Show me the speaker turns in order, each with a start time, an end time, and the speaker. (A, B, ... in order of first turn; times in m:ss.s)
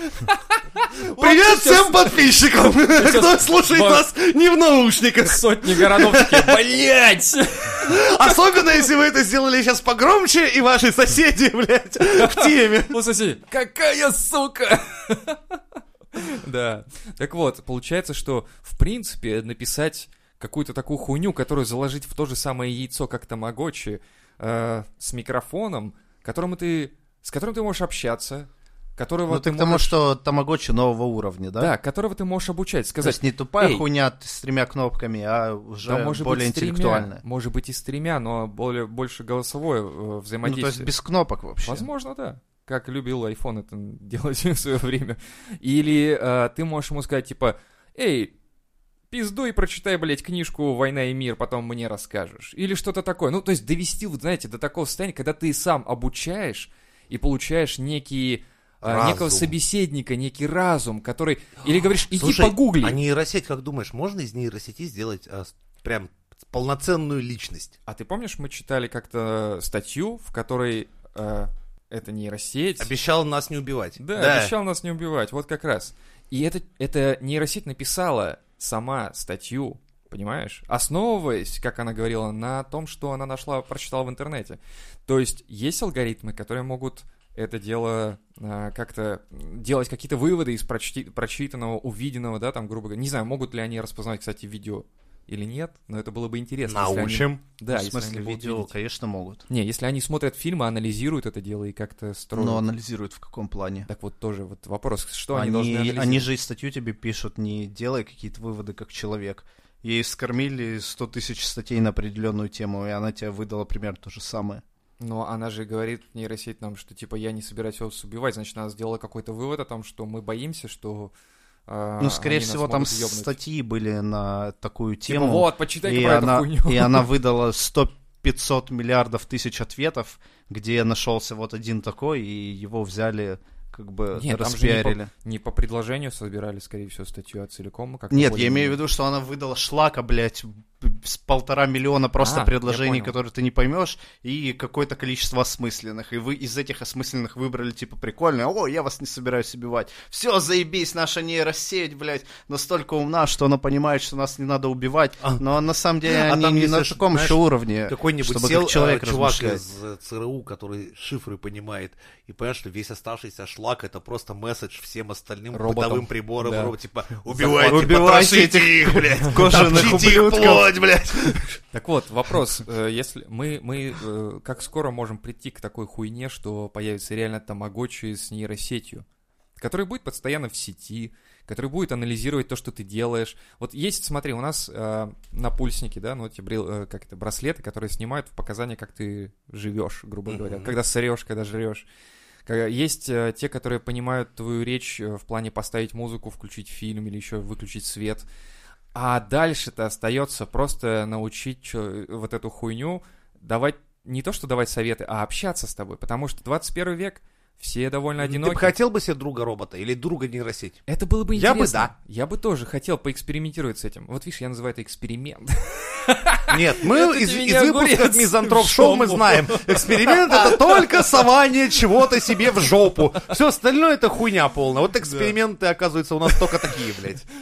0:00.2-0:04.0 A
0:01.1-0:06.6 B
0:05.2-0:08.8 A
0:07.8-0:13.0 B
0:12.1-0:15.6 A
0:16.1-0:30.0 A
0:29.3-0:31.7 C
0:31.6-0:33.8 A
0:33.0-0:37.2 C
0:35.8-0:40.9 A
0:40.4-0:41.9 C
0:41.6-0:48.3 A
0:49.1-1:03.0 A
0:58.8-0:59.5 B
1:02.1-1:07.8 B
1:07.8-1:12.9 A
1:12.8-1:14.5 B
1:14.0-1:38.7 A
1:36.7-1:37.4 B
1:37.7-1:39.4 C
1:39.5-1:42.6 A
1:42.3-1:43.9 C
1:43.9-1:46.3 A
1:45.3-1:54.6 C
1:55.0-2:01.1 A
2:01.7-2:03.4 A
2:02.0-2:15.1 C
2:05.1-2:07.1 A
2:14.2-2:18.8 A
2:18.1-2:39.6 C
2:22.2-2:23.2 A
2:36.1-2:51.6 B
2:45.5-2:46.7 A
2:47.4-2:47.8 A
2:47.4-2:50.7 C
2:49.5-2:49.7 A
2:51.7-2:59.0 A
2:59.6-3:11.8 A
3:10.3-3:10.7 B
3:12.4-3:18.2 A
3:18.9-3:28.7 A
3:28.2-3:31.9 B
3:30.9-3:41.2 A
3:36.5-3:47.2 B
3:42.2-3:42.6 A
3:45.0-3:45.4 A
3:46.3-3:46.7 A